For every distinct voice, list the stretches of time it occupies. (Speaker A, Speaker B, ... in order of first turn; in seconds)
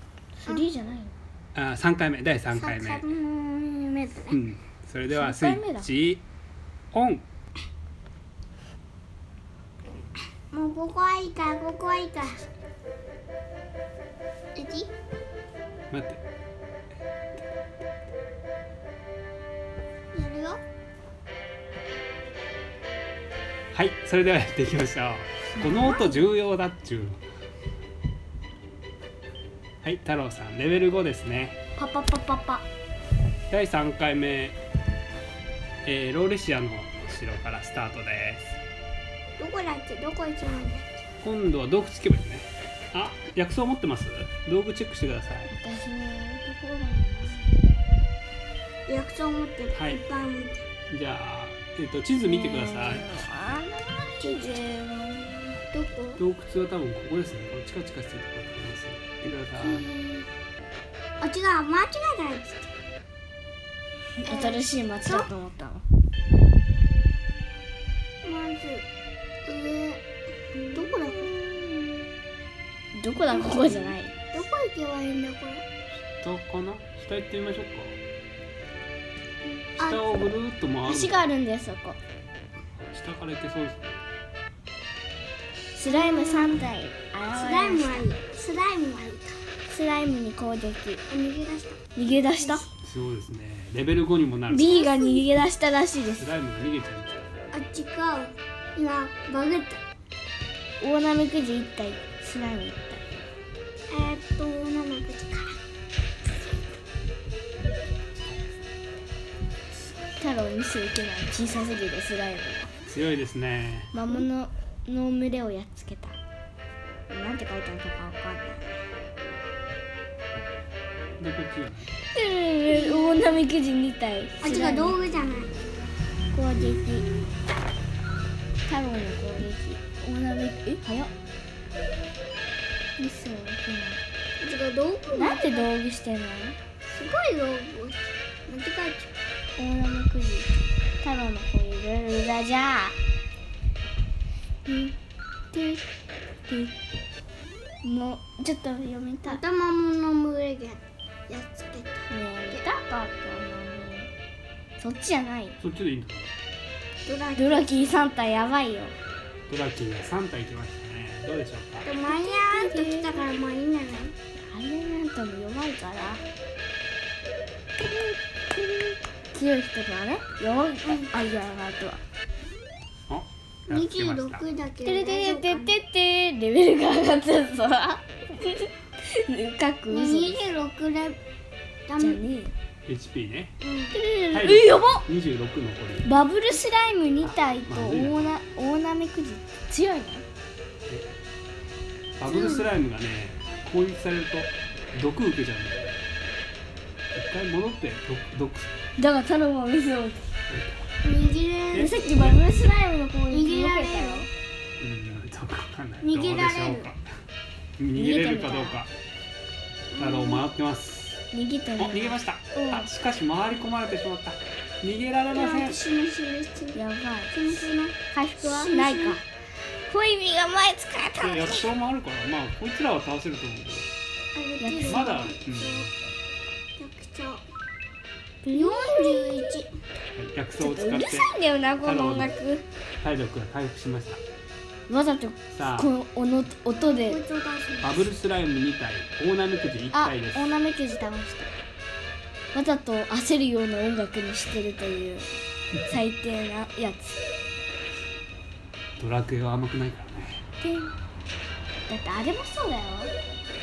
Speaker A: 0.4-1.2, 5.1-5.9, 25.6-26.1, 31.8-32.6, 45.5-47.6, 52.3-55.4, 64.2-65.8, 70.6-71.9, 72.9-74.2, 80.9-82.0, 85.8-88.1, 89.7-91.0, 92.0-92.7, 94.5-96.3, 100.8-103.1, 110.2-112.7, 113.9-116.2, 117.1-118.8, 122.1-125.0, 126.3-127.1, 128.7-131.1, 133.0-134.0, 135.2-136.6, 139.6-143.0, 144.7-145.0, 145.5-145.8, 146.5-146.7, 147.8-149.4, 152.1-154.1, 154.8-155.6, 157.4-158.9, 162.1-163.3, 164.4-166.2, 167.8-172.0, 174.8-180.4, 182.0-182.5, 183.9-185.1, 186.0-190.2, 199.0-200.3, 201.8-204.3, 207.9-208.8, 211.3-212.9, 215.3-215.7, 216.7-217.4, 218.1-219.2, 219.9-221.7, 224.6-225.1, 228.4-229.4, 230.6-232.7, 234.9-237.2, 239.9-241.6, 242.5-245.3, 245.8-247.2, 250.6-250.9, 251.9-253.1
Speaker B: 1.6-3.1, 4.3-6.2, 6.9-7.2, 15.9-16.2, 23.7-27.2, 29.8-31.6, 33.5-34.6, 35.9-38.6, 41.2-45.5, 49.7-50.0, 50.9-53.1, 56.2-59.9, 73.5-74.0, 76.1-78.0, 79.8-81.2, 82.8-84.0, 92.8-94.8, 96.2-97.3, 108.2-108.5, 112.9-113.9, 121.2-121.9, 155.6-156.3, 159.5-161.9, 173.1-174.4, 182.9-183.6, 184.3-186.1, 187.2-188.4, 192.2-196.0, 197.1-198.7, 200.5-200.8, 201.7-202.6, 204.8-207.0, 207.8-208.9, 210.0-211.2, 211.8-215.7, 221.2-223.9, 224.9-225.9, 230.2-231.3, 231.8-232.3, 233.0-234.2, 235.5-235.9, 237.8-240.6, 249.0-250.4
Speaker C: 2.5-4.4, 10.5-12.4, 14.6-14.9, 20.1-20.6, 39.4-41.0, 48.9-50.6, 54.2-56.2, 59.6-60.3, 61.2-62.7, 64.2-65.3, 68.2-68.9, 69.5-70.0, 70.7-71.3, 74.3-75.6, 79.8-80.3, 85.8-86.6, 87.3-89.3, 91.1-92.7, 94.6-95.2, 97.5-99.8, 103.9-105.6, 122.7-123.2, 124.4-125.5, 134.4-135.7, 136.9-139.1, 149.2-152.7, 157.1-158.1, 161.8-164.2, 170.8-171.1, 173.7-175.8, 179.9-181.2, 181.9-182.2, 183.6-184.0, 192.2-192.7, 201.0-202.4, 203.3-204.3, 206.0-206.9, 209.9-210.5, 215.3-216.8, 217.3-219.2, 224.3-225.9, 226.8-227.4, 228.5-229.7, 236.8-238.1